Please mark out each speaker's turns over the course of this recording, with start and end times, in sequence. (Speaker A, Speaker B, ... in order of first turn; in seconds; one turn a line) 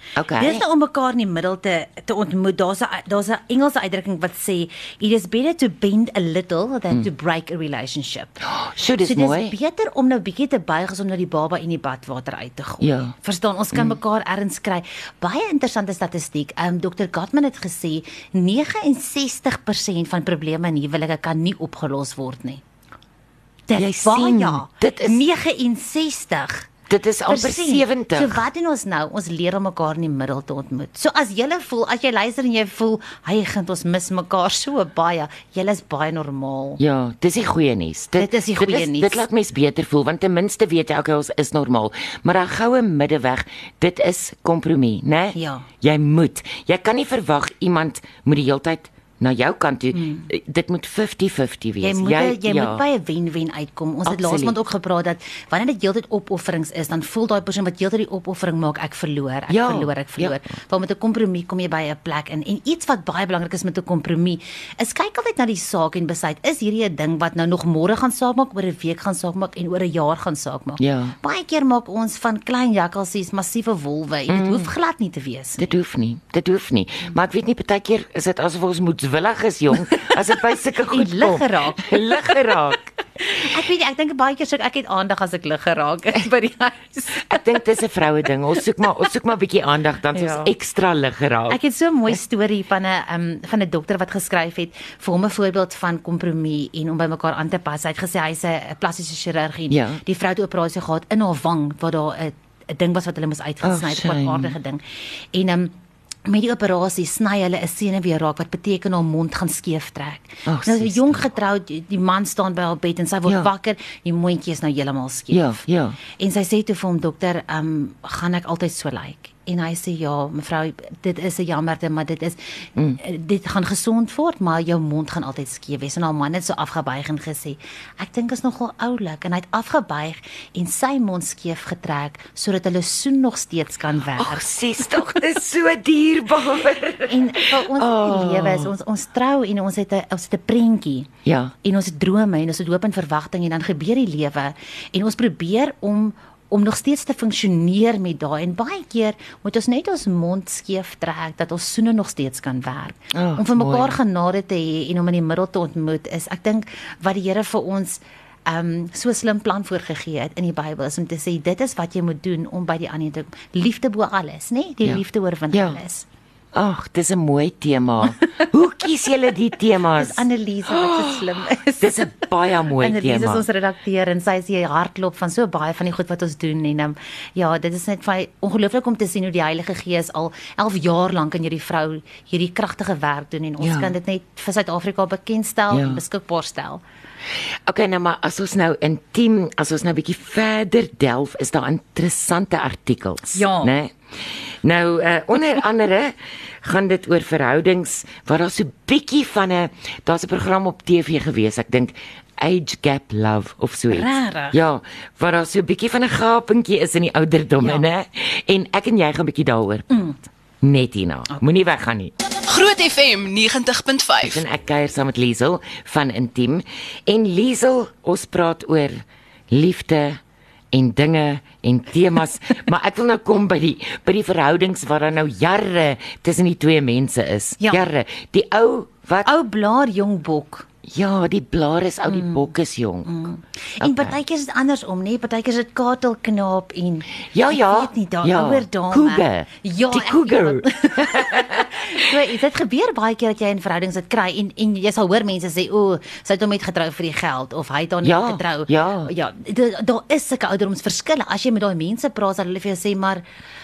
Speaker A: 0.1-0.6
Speaker B: 0.4-8.4
Speaker A: 8.5-9.5
Speaker B: 9.0-22.6
Speaker A: 12.8-13.1
Speaker B: 23.7-26.7
Speaker A: 23.8-25.2
Speaker A: 26.9-28.4
Speaker B: 27.3-36.8
Speaker A: 36.8-52.8
Speaker B: 38.2-39.2
Speaker B: 45.3-45.6
Speaker B: 49.9-50.3
Speaker B: 51.8-75.7
Speaker A: 54.0-54.5
Speaker A: 59.5-60.4
Speaker A: 70.8-71.2
Speaker A: 74.3-74.7
Speaker A: 75.6-82.8
Speaker B: 80.9-82.2
Speaker B: 83.2-87.4
Speaker A: 87.2-91.6
Speaker B: 88.8-89.1
Speaker B: 90.1-90.5
Speaker B: 91.5-104.8
Speaker A: 99.7-100.0
Speaker A: 103.6-104.5
Speaker B: 105.3-105.7
Speaker B: 106.2-115.6
Speaker A: 110.5-111.3
Speaker A: 115.3-116.0
Speaker B: 116.2-122.4
Speaker B: 123.0-135.1
Speaker A: 134.2-138.7
Speaker B: 137.1-141.1
Speaker A: 141.2-141.5
Speaker B: 141.6-166.1
Speaker A: 153.1-154.0
Speaker A: 165.5-165.8
Speaker A: 166.5-171.2
Speaker B: 169.9-172.1
Speaker A: 171.8-173.4
Speaker B: 172.8-186.8
Speaker A: 183.6-183.9
Speaker A: 185.7-186.0
Speaker A: 187.7-193.9
Speaker B: 193.3-193.7
Speaker A: 194.6-209.9
Speaker B: 203.9-204.6
Speaker B: 207.6-207.8
Speaker B: 209.9-210.2
Speaker A: 210.6-212.1
Speaker C: 212.4-214.3
Speaker A: 214.1-220.2
Speaker A: 220.7-229.3
Speaker B: 227.6-227.8
Speaker B: 229.2-230.6
Speaker A: 230.9-233.2
Speaker B: 232.1-232.5
Speaker B: 233.0-253.2
Speaker A: 233.8-234.2
Speaker A: 237.3-241.9
Speaker A: 248.0-249.1